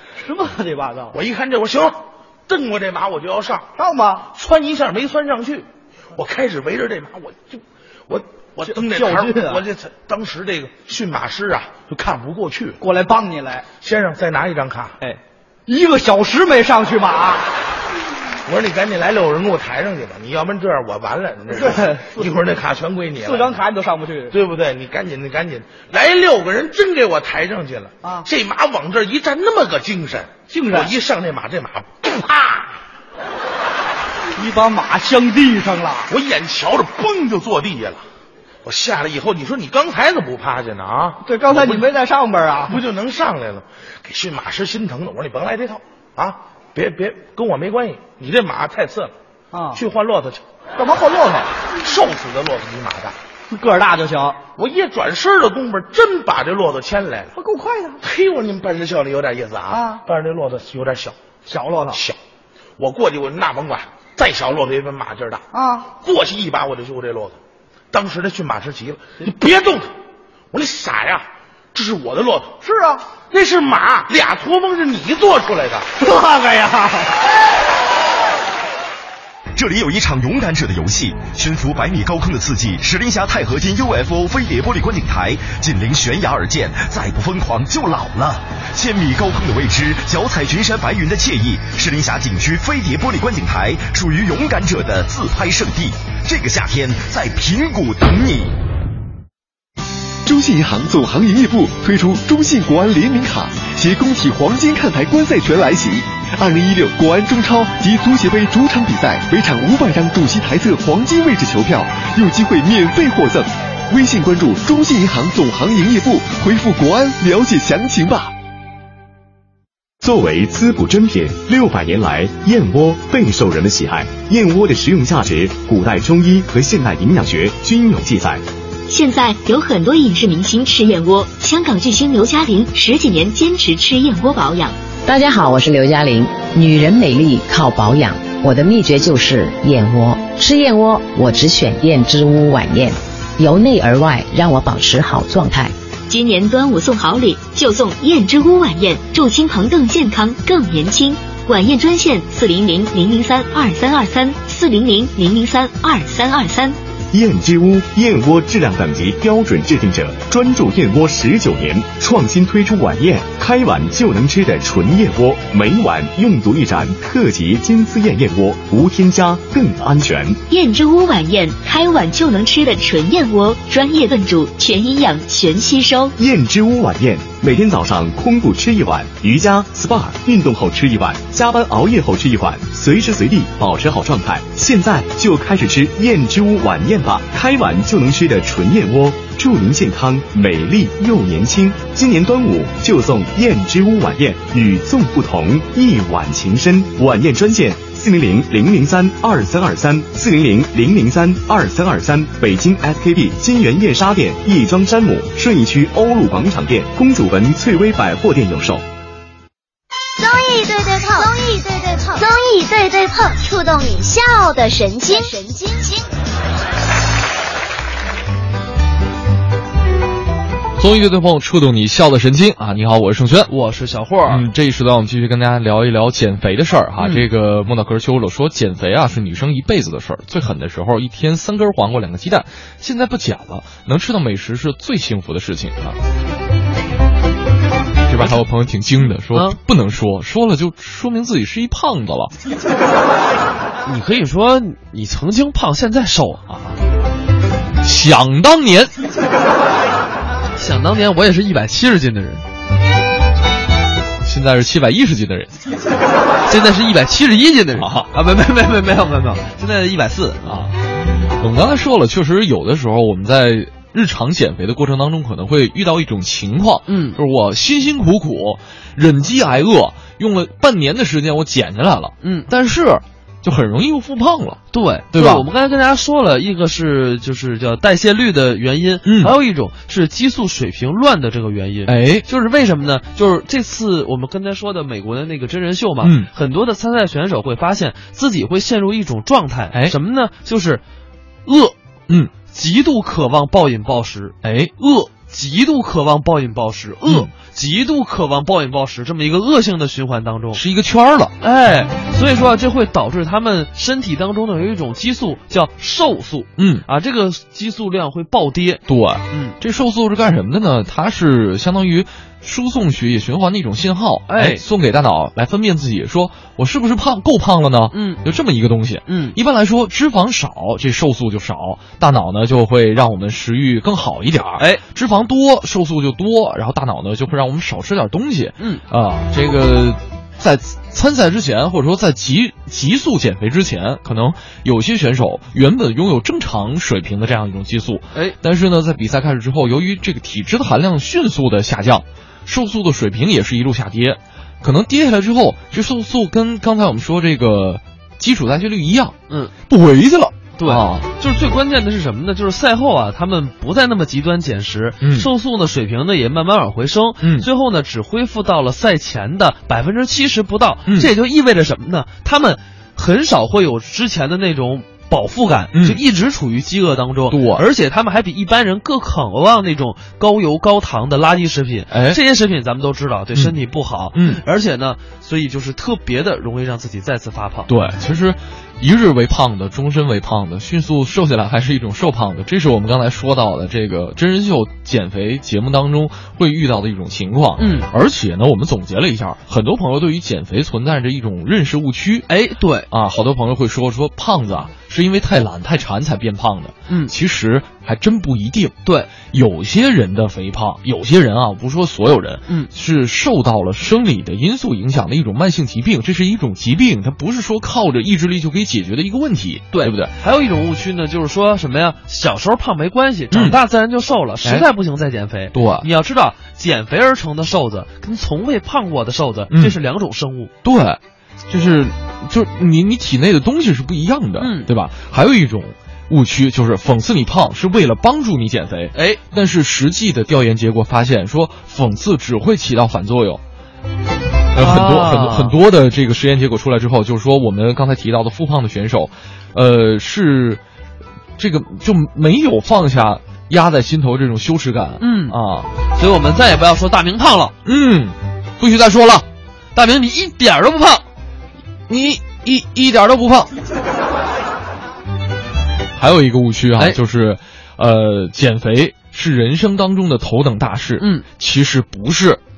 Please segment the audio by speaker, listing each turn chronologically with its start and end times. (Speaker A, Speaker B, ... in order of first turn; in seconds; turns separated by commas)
Speaker A: 0.2-1.1, Speaker B: 1.1-2.0, Speaker B: 2.5-3.7, Speaker A: 3.8-4.3, Speaker B: 4.3-12.8, Speaker A: 8.7-9.6, Speaker A: 12.8-13.7, Speaker B: 13.8-15.0, Speaker A: 15.0-17.5, Speaker B: 18.5-23.6, Speaker A: 21.5-22.3, Speaker A: 23.2-24.3, Speaker B: 24.3-32.8, Speaker A: 30.5-30.9, Speaker A: 34.4-36.1, Speaker B: 36.1-38.0, Speaker B: 38.6-41.9, Speaker A: 41.2-42.8, Speaker B: 42.7-49.1, Speaker A: 49.5-49.8, Speaker B: 49.7-50.4, Speaker A: 50.8-51.5, Speaker B: 51.8-53.2, Speaker A: 53.5-54.4, Speaker B: 54.6-57.3, Speaker A: 57.4-58.0, Speaker B: 58.0-61.2, Speaker A: 59.7-60.0, Speaker A: 61.5-62.0, Speaker B: 61.9-62.2, Speaker B: 62.8-67.4, Speaker A: 65.5-65.9, Speaker B: 67.9-69.9, Speaker B: 70.5-72.5, Speaker A: 72.6-73.0, Speaker B: 73.3-75.9, Speaker A: 76.0-77.2, Speaker C: 79.5-98.5, Speaker D: 120.0-128.4, Speaker E: 128.9-134.8, Speaker F: 135.1-145.7, Speaker E: 146.1-156.8, Speaker D: 157.1-170.4, Speaker E: 170.5-176.1, Speaker D: 176.2-208.8, Speaker G: 210.2-216.1, Speaker H: 220.8-223.5, Speaker I: 223.5-224.4, Speaker H: 224.3-236.0, Speaker I: 227.0-227.2, Speaker H: 238.1-242.3, Speaker I: 239.3-239.6, Speaker I: 243.8-246.6, Speaker H: 247.8-248.9, Speaker I: 250.6-252.4, Speaker H: 254.2-255.5, Speaker I: 256.5-260.5, Speaker H: 257.8-258.1, Speaker H: 260.5-260.7, Speaker H: 261.4-275.4, Speaker I: 266.9-267.2, Speaker I: 272.2-272.5, Speaker I: 274.7-290.8, Speaker H: 279.1-279.4, Speaker H: 281.9-282.2, Speaker H: 286.0-286.3, Speaker I: 291.5-291.7, Speaker I: 292.4-300.6, Speaker H: 294.4-294.7, Speaker H: 300.5-301.4, Speaker I: 301.4-309.6, Speaker H: 306.6-306.9, Speaker H: 308.9-351.1, Speaker I: 314.3-314.6, Speaker I: 317.9-318.2, Speaker I: 319.1-319.4, Speaker I: 350.6-377.7, Speaker H: 355.0-355.3, Speaker H: 357.2-357.5, Speaker H: 365.7-366.0, Speaker H: 367.3-367.6, Speaker H: 371.9-372.2, Speaker H: 374.1-374.4, Speaker H: 377.7-392.3, Speaker I: 387.6-387.9, Speaker I: 392.3-392.9, Speaker H: 392.9-410.1, Speaker I: 398.9-399.1, Speaker I: 409.7-420.5, Speaker H: 413.3-413.6, Speaker H: 415.5-415.9, Speaker H: 419.5-419.8, Speaker H: 420.6-433.4, Speaker I: 424.4-424.7, Speaker I: 428.9-429.2, Speaker H: 434.6-440.6, Speaker I: 434.6-435.6, Speaker H: 441.4-445.7, Speaker I: 445.0-445.4, Speaker I: 445.9-447.6, Speaker H: 447.7-449.2, Speaker I: 449.8-451.0, Speaker H: 451.9-453.5, Speaker H: 456.0-462.4, Speaker I: 461.0-461.2